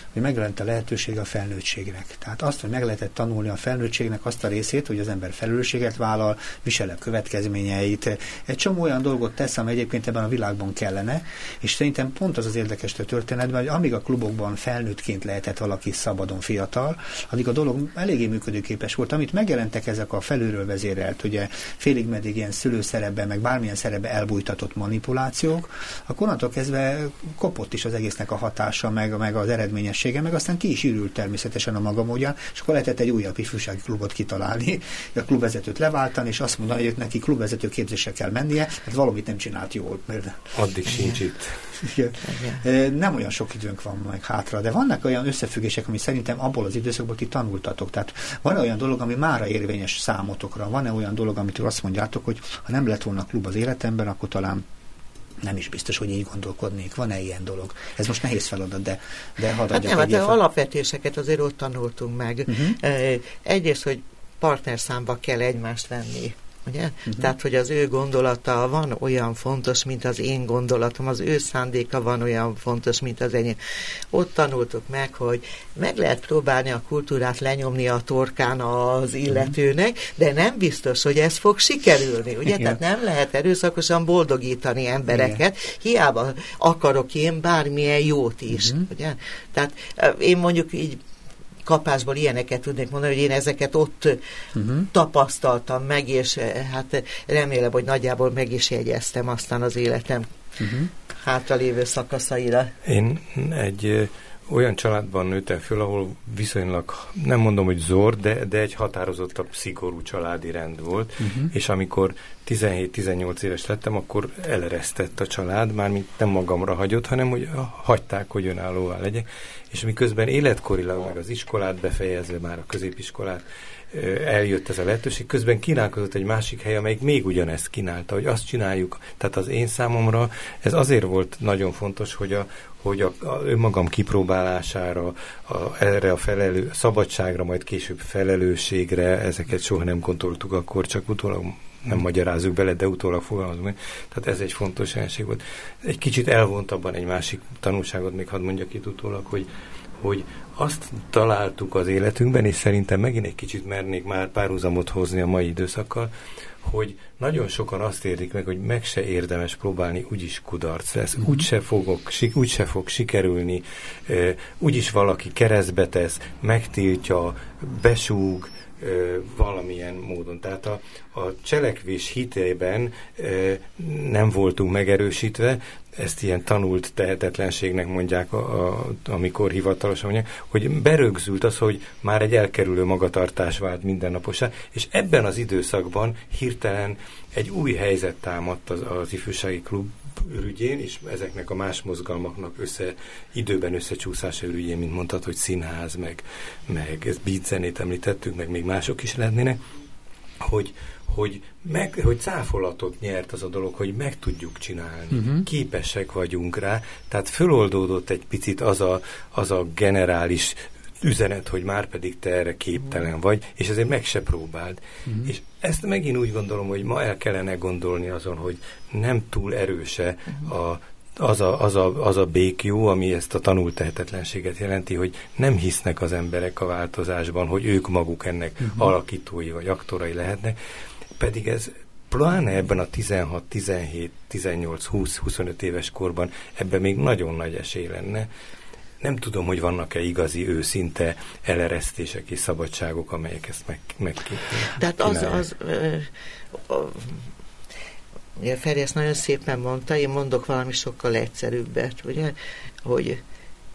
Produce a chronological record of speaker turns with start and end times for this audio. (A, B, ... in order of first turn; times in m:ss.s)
0:00.1-0:40.5 A
0:40.5-0:41.8 B
0:41.8-0:54.6 A
0:42.2-0:42.6 C
0:55.4-1:00.4 A
0:59.7-1:13.6 C
1:02.5-1:02.8 A
1:14.1-1:31.0 C
1:25.1-1:25.4 A
1:28.5-1:28.8 A
1:31.6-1:34.2 C
1:34.6-1:34.9 A
1:34.9-1:40.3 C
1:40.6-1:40.9 A
1:41.2-1:42.7 C
1:42.8-2:29.5 B
1:51.2-1:51.5 A
2:30.0-2:36.1 B
2:36.6-3:19.6 B
3:20.4-3:50.6 B
3:25.1-3:25.4 A
3:48.6-3:48.9 A
3:51.2-3:58.3 B
3:59.0-4:05.4 B
4:04.7-4:07.2 C
4:08.4-4:13.2 C